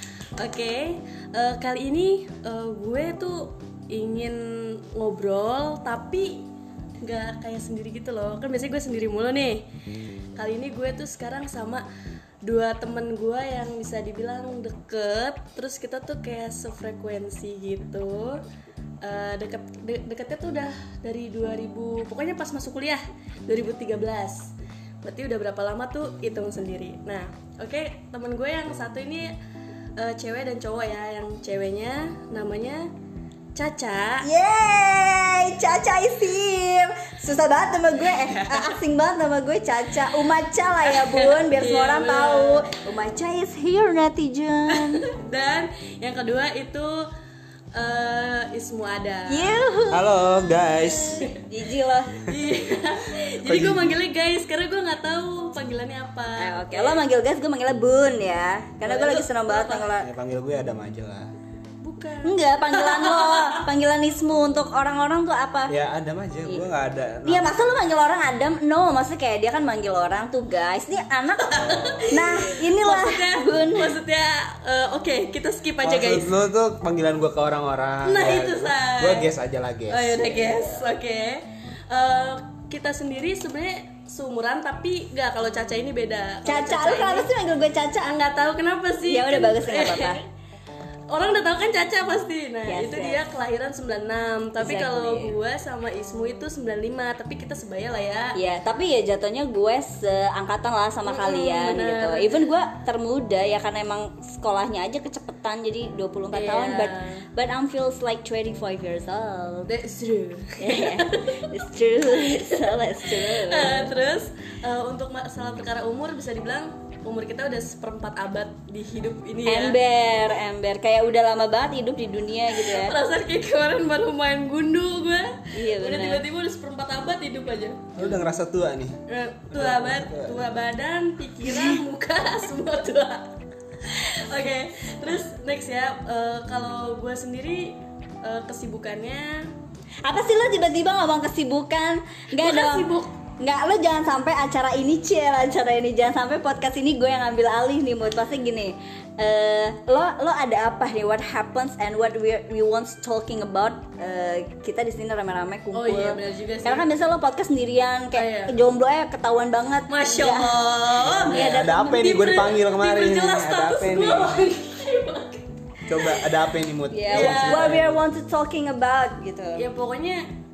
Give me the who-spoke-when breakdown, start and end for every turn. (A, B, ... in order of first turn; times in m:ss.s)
0:00.4-0:06.5 A
0:07.0-0:09.7 A
0:10.3-0:11.8 A
0:12.4-0:18.4 A
0:19.0-0:29.3 A
0:30.0-0:32.9 A
0:33.5-0:34.3 A
0:34.2-0:45.0 B
0:38.0-0:38.8 A
0:40.8-0:42.7 A
0:44.7-0:47.1 A
0:47.7-0:49.6 A
0:49.3-0:50.1 B
0:49.9-0:51.3 C
0:51.1-0:51.5 A
0:51.3-0:52.2 B
0:52.2-0:57.0 A
0:53.4-0:54.0 C
0:56.4-1:00.1 B
0:58.8-0:59.9 A
1:00.0-1:01.3 C
1:01.8-1:03.6 A
1:02.2-1:05.7 B
1:05.7-1:07.7 C
1:07.2-1:14.0 B
1:11.4-1:16.3 A
1:11.5-1:12.1 C
1:15.8-1:20.3 C
1:18.0-1:19.3 A
1:19.9-1:27.3 A
1:26.4-1:28.5 B
1:28.3-1:30.2 A
1:29.0-1:30.2 B
1:31.1-1:38.4 A
1:32.7-1:33.2 B
1:34.6-1:35.3 B
1:38.3-1:49.7 B
1:41.0-1:42.4 A
1:46.3-1:47.2 A
1:49.7-1:51.5 A
1:50.6-1:53.9 B
1:52.0-1:59.8 A
1:59.4-2:03.0 B
2:02.5-2:08.0 A
2:05.5-2:06.2 B
2:07.9-2:09.0 C
2:09.1-2:13.3 A
2:09.5-2:10.5 C
2:13.8-2:19.5 A
2:20.0-2:42.0 B
2:22.3-2:23.1 A
2:35.7-2:36.9 A
2:38.1-2:38.6 A
2:39.9-2:45.5 A
2:41.1-2:44.5 C
2:45.9-2:48.0 C
2:46.0-2:46.2 A
2:46.9-2:49.7 B
2:47.1-2:47.8 A
2:49.6-2:50.2 A